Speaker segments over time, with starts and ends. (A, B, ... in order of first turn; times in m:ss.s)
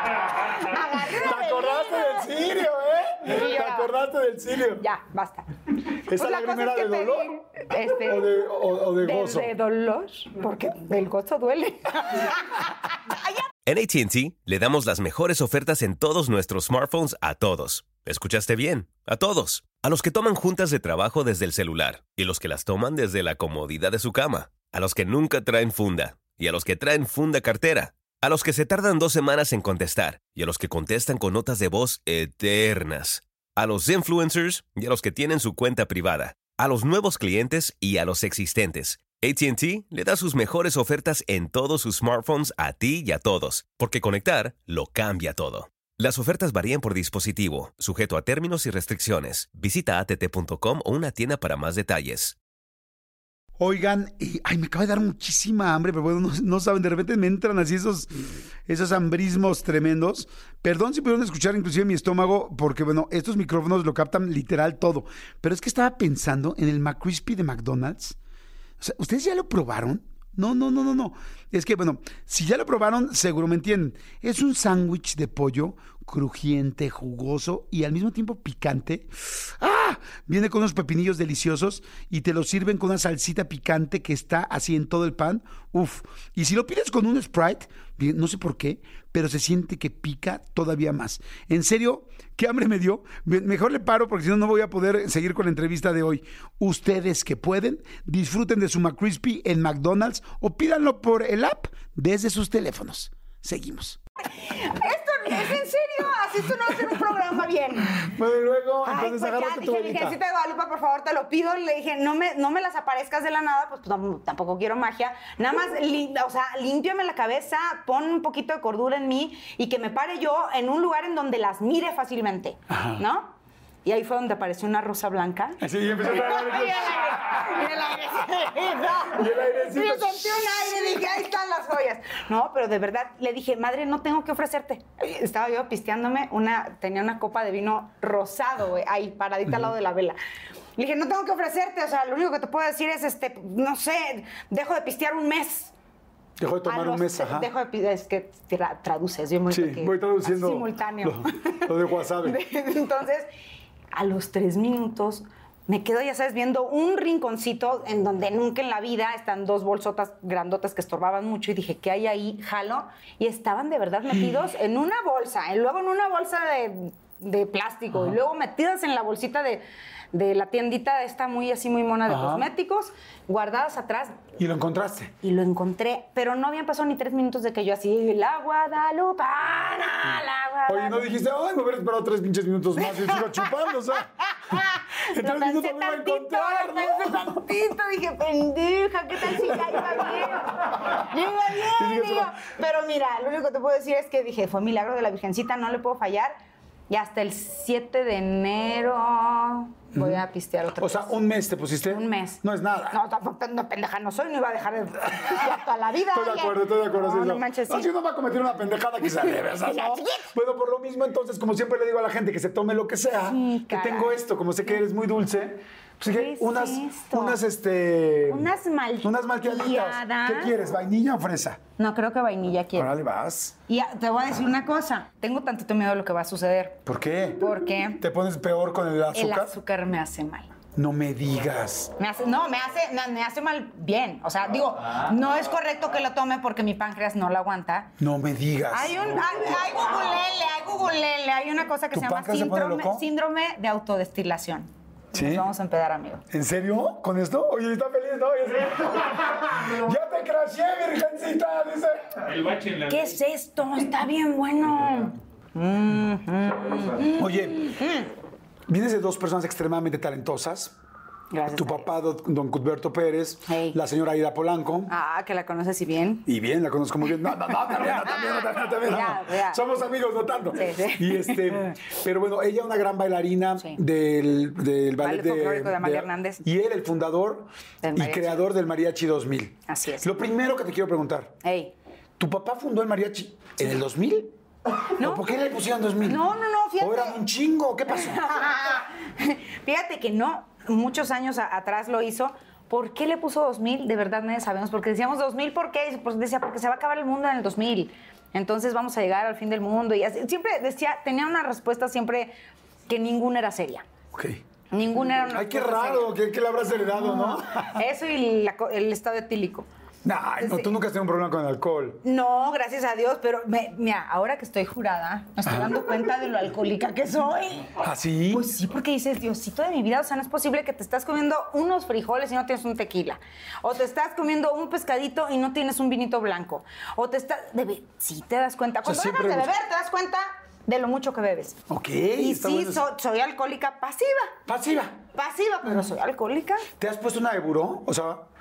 0:00.3-0:02.4 A
0:00.7-0:04.8 B
0:03.2-0:03.9 A
0:04.8-0:13.4 A
0:06.0-0:07.3 B
0:07.9-0:09.5 B
0:13.6-0:52.4 C
0:53.6-1:08.2 B
1:08.8-1:44.0 B
1:44.3-1:48.1 A
1:48.0-1:50.2 B
1:48.8-2:20.2 A
2:02.7-2:03.0 B
2:05.6-2:07.6 B
2:09.0-2:10.5 B
2:20.8-2:25.7 A
2:26.4-2:27.5 B
2:26.7-2:33.3 A
2:29.5-2:32.4 B
2:33.9-2:54.2 A
2:52.1-2:52.5 B
2:54.4-2:55.1 B
2:55.2-3:01.0 A
3:00.7-3:07.4 B
3:02.8-3:03.5 A
3:04.3-3:16.3 A
3:09.5-3:10.0 B
3:11.6-3:12.4 B
3:16.9-3:21.1 A
3:19.9-3:20.2 B
3:20.8-3:23.0 B
3:21.9-3:27.9 A
3:26.1-3:38.5 B
3:29.5-3:30.3 A
3:33.1-3:34.2 A
3:36.0-3:37.4 A
3:38.3-3:40.5 A
3:39.0-3:41.6 B
3:41.8-3:43.0 A
3:42.8-3:43.5 B
3:43.7-3:46.8 A
3:46.8-3:49.5 B
3:47.4-3:48.0 A
3:49.1-3:50.5 A
3:50.7-3:51.9 B
3:52.0-3:57.9 A
3:58.0-3:59.1 B
3:58.7-4:06.2 A
4:01.9-4:03.0 B
4:05.1-4:05.5 B
4:06.3-4:12.4 B
4:12.6-4:18.1 A
4:17.0-4:17.7 B
4:18.7-4:20.7 B
4:21.3-4:21.9 A
4:21.5-4:24.9 B
4:23.5-4:23.8 A
4:24.9-4:26.2 A
4:26.2-4:41.4 B
4:27.7-4:29.6 A
4:30.6-4:31.7 A
4:35.0-4:36.4 A
4:37.8-4:38.4 A
4:39.7-4:40.2 A
4:41.4-4:41.7 A
4:42.2-4:44.3 B
4:45.0-4:45.3 A
4:45.0-4:46.3 B
4:46.0-4:47.2 A
4:46.8-4:48.2 B
4:47.9-5:02.3 A
5:02.9-5:03.9 A
5:04.1-5:04.4 B
5:04.7-5:06.1 A
5:05.3-5:07.8 B
5:07.0-5:09.7 A
5:10.0-5:12.0 B
5:10.4-5:10.8 A
5:12.0-5:17.8 A
5:15.4-5:15.8 B
5:17.8-5:18.5 B
5:18.3-5:31.6 A
5:28.8-5:29.5 B
5:31.7-5:32.8 B
5:32.2-5:34.4 A
5:34.5-5:35.0 B
5:35.1-5:36.7 A
5:36.8-5:38.3 B